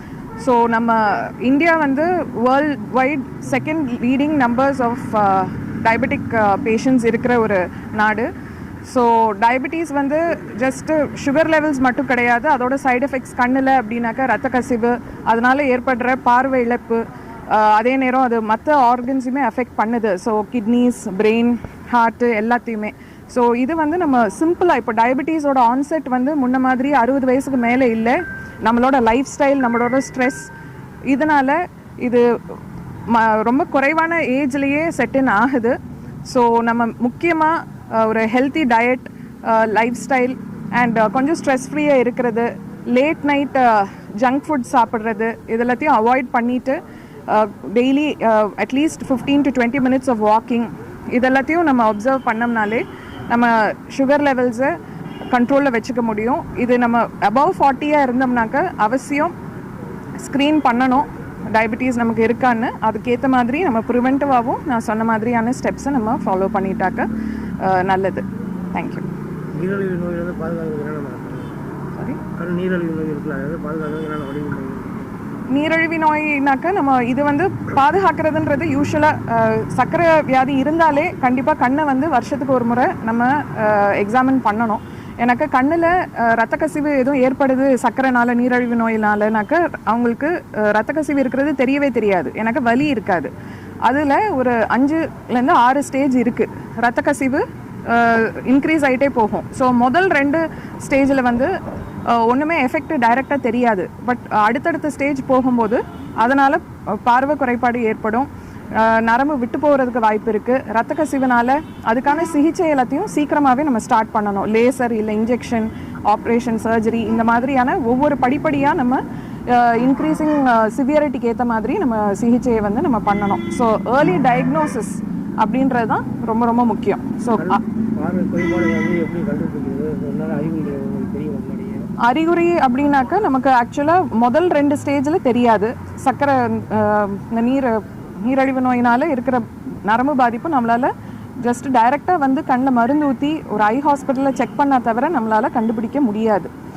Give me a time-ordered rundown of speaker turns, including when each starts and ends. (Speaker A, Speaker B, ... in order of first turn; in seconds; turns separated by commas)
Speaker A: 0.4-8.3, Speaker A: 8.9-30.5, Speaker A: 31.1-32.6, Speaker A: 33.1-54.8, Speaker A: 55.3-59.3, Speaker A: 60.2-67.1, Speaker A: 67.6-69.1, Speaker B: 69.5-71.6, Speaker A: 72.0-72.2, Speaker B: 72.4-75.1, Speaker A: 75.5-93.3, Speaker A: 93.8-101.5, Speaker A: 102.1-127.6, Speaker B: 127.4-131.9, Speaker A: 132.0-146.5